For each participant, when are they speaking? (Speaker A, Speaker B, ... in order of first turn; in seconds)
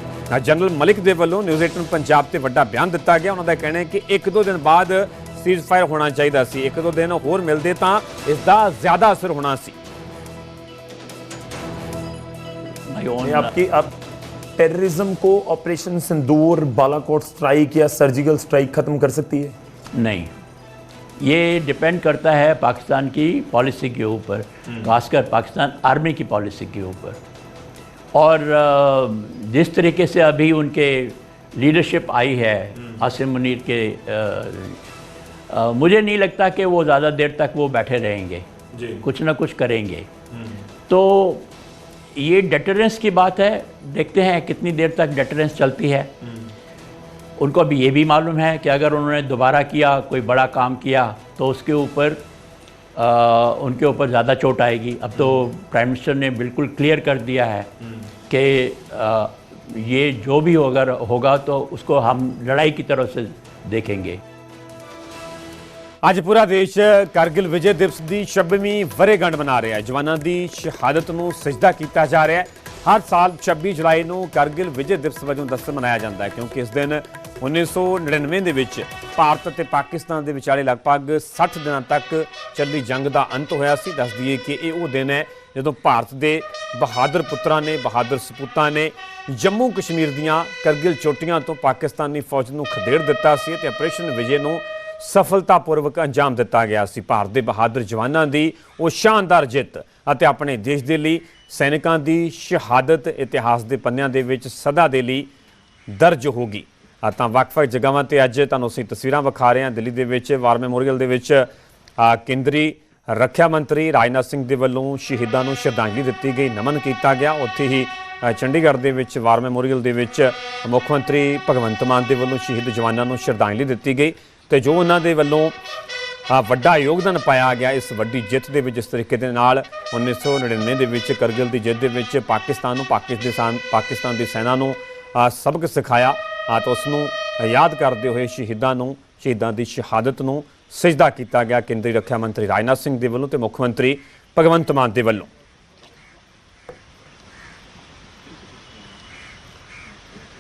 Speaker A: 0.3-9.8, 66.0-105.3, 105.9-111.5, 112.0-125.5, 126.3-145.3
Speaker B: 12.9-13.6, 19.9-20.3, 21.2-27.2, 28.1-34.8, 35.5-38.5, 39.0-40.1, 40.9-41.5, 42.2-46.1, 47.4-52.2, 53.0-57.7, 58.3-64.2
Speaker C: 13.2-13.9, 14.6-19.6, 38.7-39.0, 40.3-40.6, 55.1-55.4